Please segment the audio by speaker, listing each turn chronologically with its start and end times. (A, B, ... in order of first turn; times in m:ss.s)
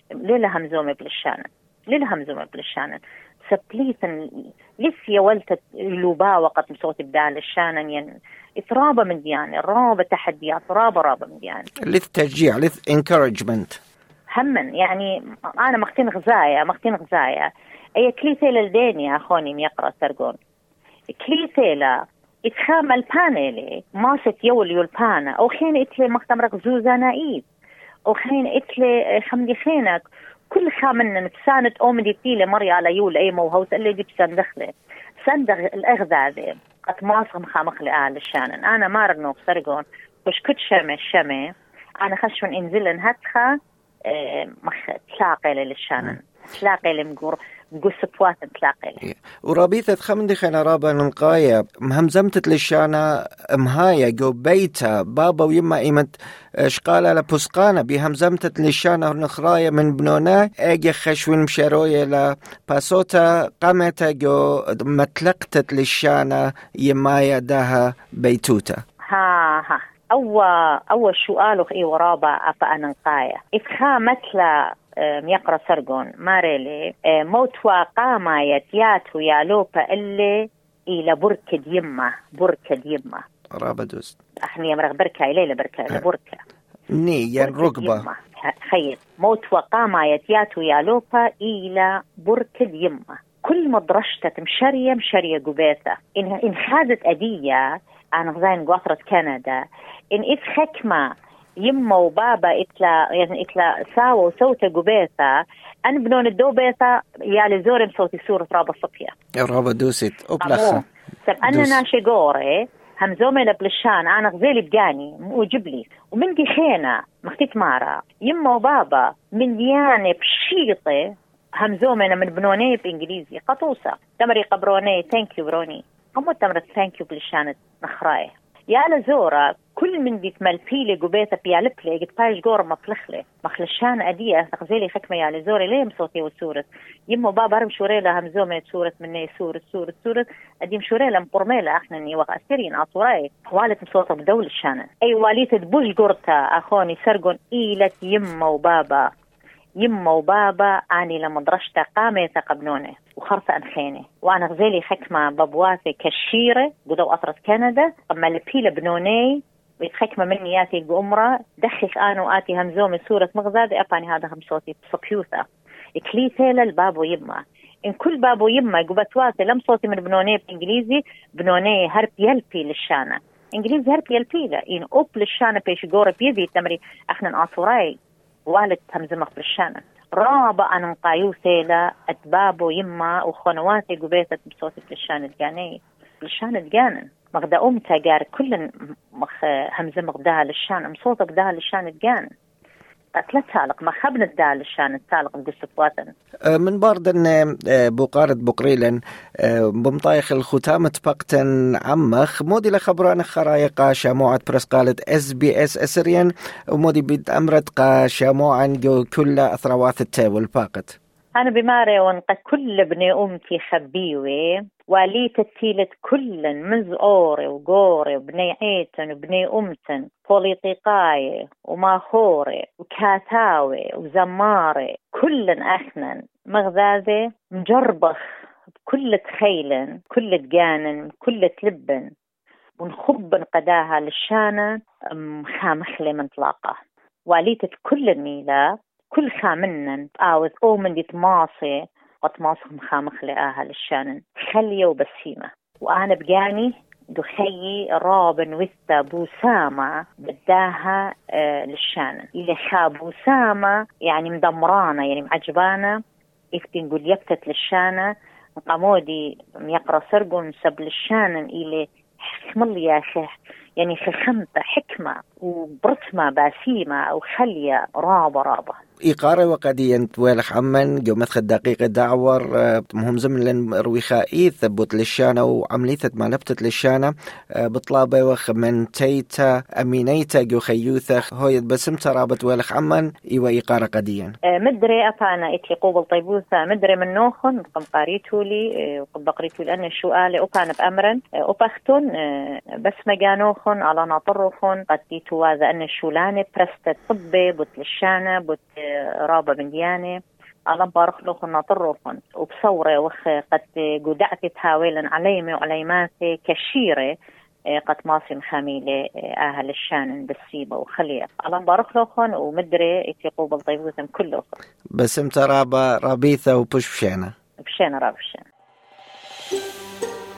0:00.2-0:08.1 A
0:08.6-0:11.7 A
0:11.9-0:13.8 B
0:14.3-0:17.5 A
0:18.0-0:20.4 A
0:21.1-0:22.0 A
0:22.5-0:27.4 A
0:28.1-0:34.7 A
0:35.2-0:41.5 A
0:42.0-0:43.6 A
0:44.1-0:49.0 A
0:49.0-0:56.1 B
0:56.6-1:08.8 B
1:09.1-1:23.2 A
1:23.6-1:24.2 B
1:24.4-1:26.4 A
1:26.9-1:28.1 B
1:27.4-1:39.6 A
1:40.1-1:41.1 A
1:41.6-1:49.1 A
1:49.4-1:50.8 B
1:50.4-2:29.1 A
1:51.4-1:51.8 B
2:29.8-2:57.9 A
2:58.5-3:12.3 A
3:13.2-3:16.1 A
3:16.5-3:30.9 B
3:31.4-3:48.2 A
3:48.9-3:52.1 A
3:52.8-3:56.8 A
3:57.3-4:16.0 A
4:16.6-4:18.1 A
4:18.6-4:28.8 A
4:29.1-4:37.1 B
4:37.7-4:44.3 B
4:44.6-5:00.2 A
5:00.7-5:07.1 A
5:07.8-5:14.6 A
5:15.0-5:17.3 B
5:17.6-5:18.4 A